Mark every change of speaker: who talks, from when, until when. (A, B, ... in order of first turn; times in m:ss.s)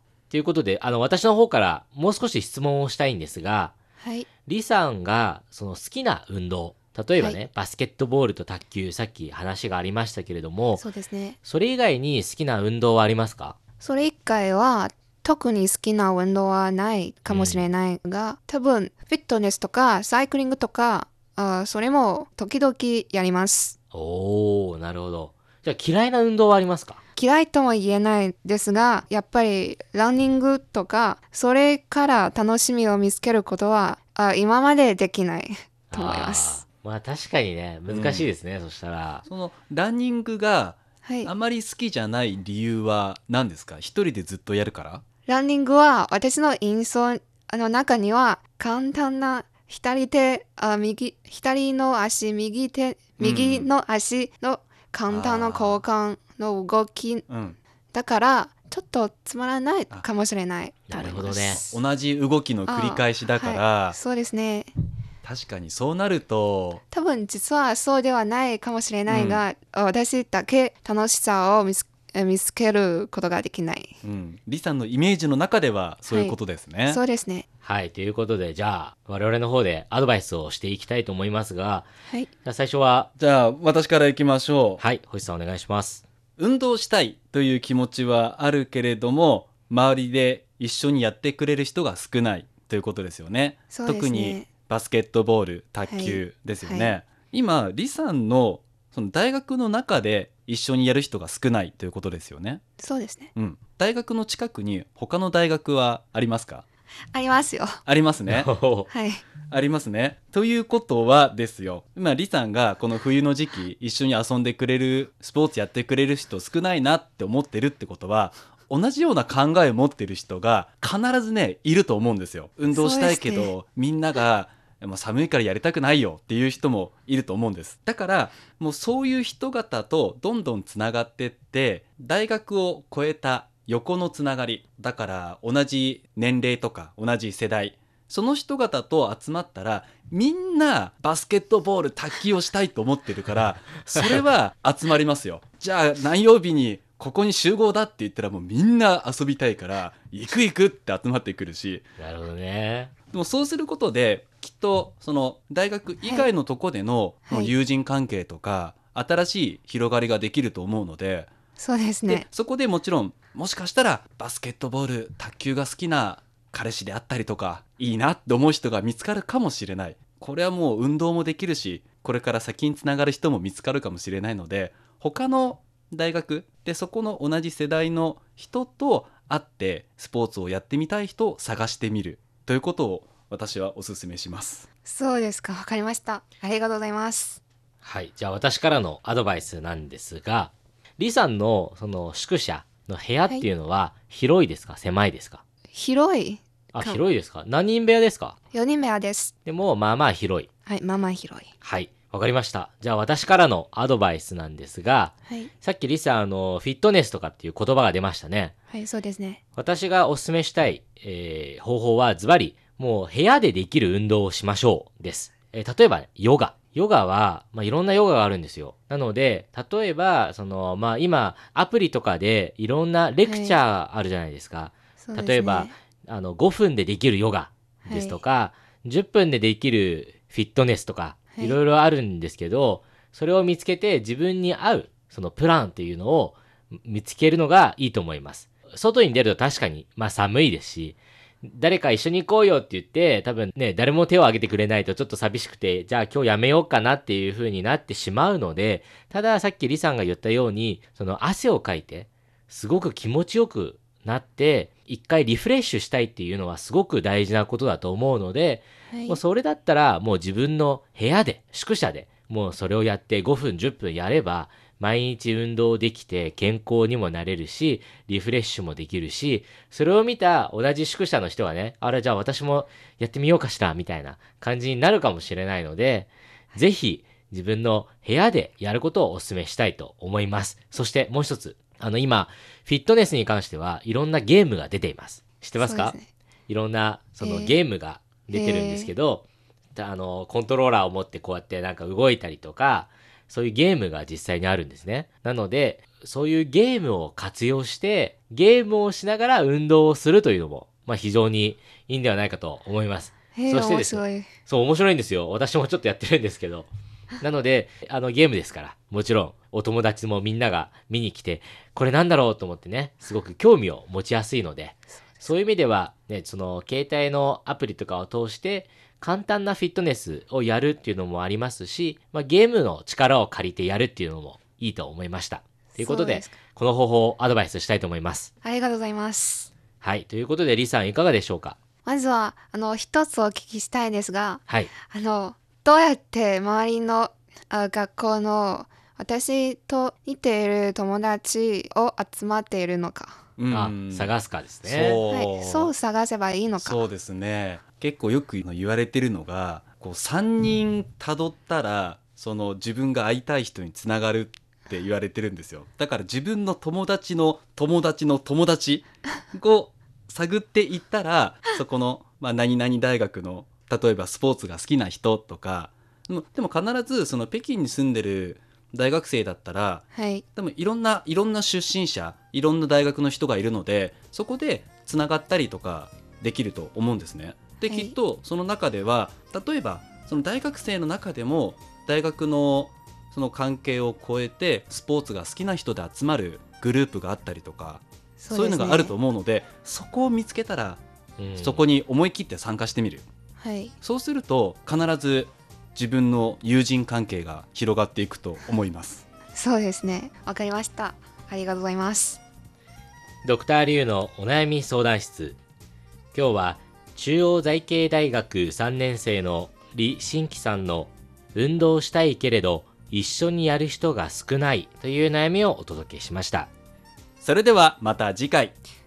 0:00.3-0:03.7 A
0:04.5-0:10.8 A
0:10.8-0:11.4 B
0:11.4-0:13.6 A
0:13.8-0:23.8 B
0:17.3-0:17.7 A
0:23.9-0:27.0 A
0:27.2-0:36.6 B
0:35.9-0:39.2 A
0:37.9-0:38.3 C
0:39.3-0:45.0 C
0:41.0-0:41.3 B
0:45.3-0:57.2 B
0:53.2-0:53.7 C
0:55.1-0:55.8 C
0:57.3-0:57.6 C
0:57.9-1:01.8 B
1:00.9-1:01.6 A
1:01.7-1:04.0 C
1:02.7-1:04.7 B
1:05.2-1:06.8 C
1:06.9-1:13.9 B
1:09.1-1:09.4 C
1:14.0-1:17.0 C
1:16.9-1:17.4 B
1:17.6-1:21.9 A
1:22.4-1:23.1 A
1:23.2-1:24.8 C
1:24.8-1:26.0 A
1:26.4-1:42.6 C
1:33.7-1:34.5 B
1:35.8-1:36.9 B
1:42.8-1:43.3 B
1:43.4-1:46.6 C
1:47.1-1:47.8 B
1:47.8-1:48.5 C
1:48.3-1:48.9 A
1:48.9-1:49.2 B
1:49.5-2:31.8 C
2:02.7-2:03.5 B
2:32.0-2:32.9 A
2:33.1-2:41.3 C
2:41.6-2:42.3 B
2:42.1-3:04.7 C
3:04.9-3:07.4 B
3:07.8-3:15.4 A
3:15.7-3:17.0 B
3:16.7-3:18.4 A
3:18.5-3:19.3 B
3:19.5-3:20.5 A
3:20.7-3:21.5 B
3:21.6-3:28.5 A
3:28.7-3:29.4 B
3:29.6-4:46.0 A
3:43.3-3:43.6 B
3:45.0-3:45.7 B
3:47.9-3:48.2 B
4:18.9-4:19.2 B
4:45.6-4:46.0 B
4:46.5-5:06.7 A
4:48.3-4:48.9 B
5:03.4-5:04.3 B
5:07.2-5:28.3 A
5:15.0-5:15.2 B
5:25.8-5:26.3 B
5:28.4-5:29.5 B
5:29.8-5:31.6 A
5:31.9-5:43.2 B
5:43.4-5:44.1 C
5:43.5-5:45.0 A
5:44.6-5:45.7 C
5:45.1-5:46.8 B
5:46.6-6:09.8 C
6:09.9-6:10.2 B
6:10.4-6:30.8 C
6:17.7-6:18.0 B
6:28.2-6:29.0 B
6:31.2-6:31.7 A
6:31.4-6:33.1 C
6:33.4-6:33.7 B
6:33.8-6:39.0 C
6:39.3-6:42.2 B
6:43.2-6:45.4 A
6:46.1-6:56.5 A
6:57.2-6:58.6 C